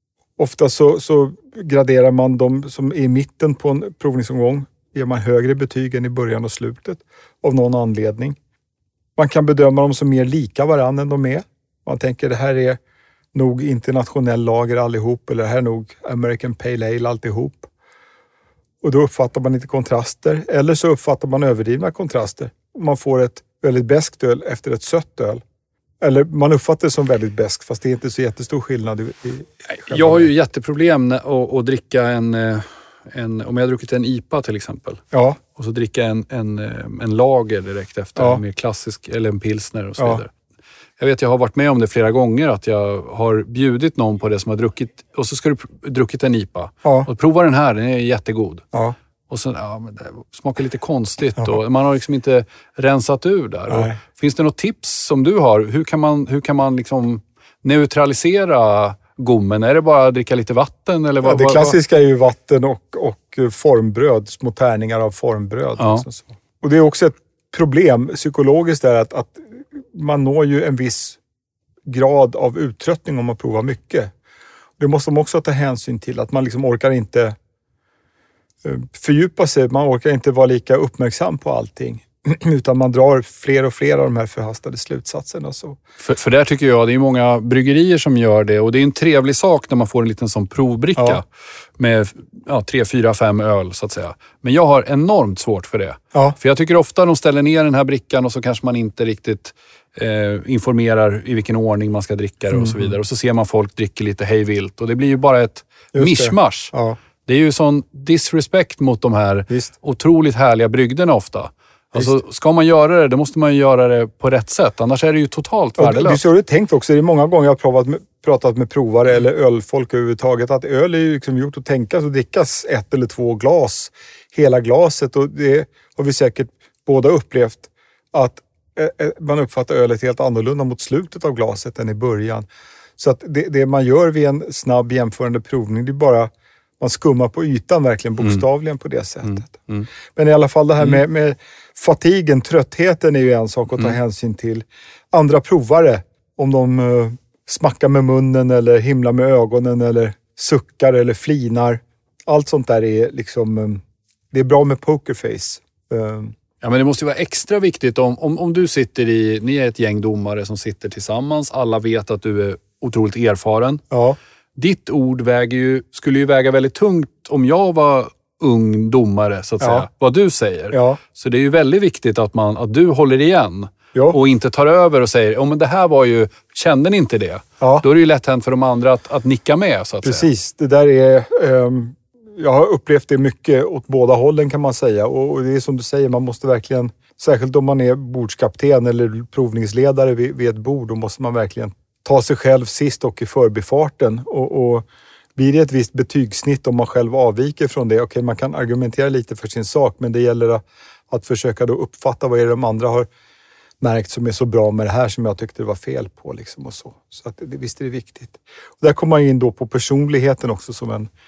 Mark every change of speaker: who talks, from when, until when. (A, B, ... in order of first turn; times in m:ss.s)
0:00.4-0:08.4 A
0:09.2-0:12.8 A
0:13.3-0:17.7 A
0:18.8-0:25.4 A
0:26.0-0:30.3 A
0:29.7-0:40.3 B
0:35.1-0:35.4 A
0:41.0-0:48.6 B
0:46.8-0:47.1 A
0:49.3-1:01.8 B
0:53.7-0:54.0 A
1:01.2-1:11.2 A
1:05.8-1:06.1 B
1:11.9-1:14.1 A
1:14.8-1:17.4 A
1:18.6-1:25.8 A
1:26.0-1:31.3 B
1:31.8-1:46.7 B
1:42.5-1:42.9 A
1:45.9-1:47.0 A
1:47.2-1:56.2 B
1:55.8-2:12.5 A
2:13.0-2:36.4 A
2:19.2-2:19.9 B
2:36.6-2:43.8 B
2:43.9-2:44.2 A
2:44.6-3:00.3 B
2:49.6-2:49.9 A
2:50.7-2:51.0 A
3:00.0-3:23.1 A
3:23.8-3:31.1 A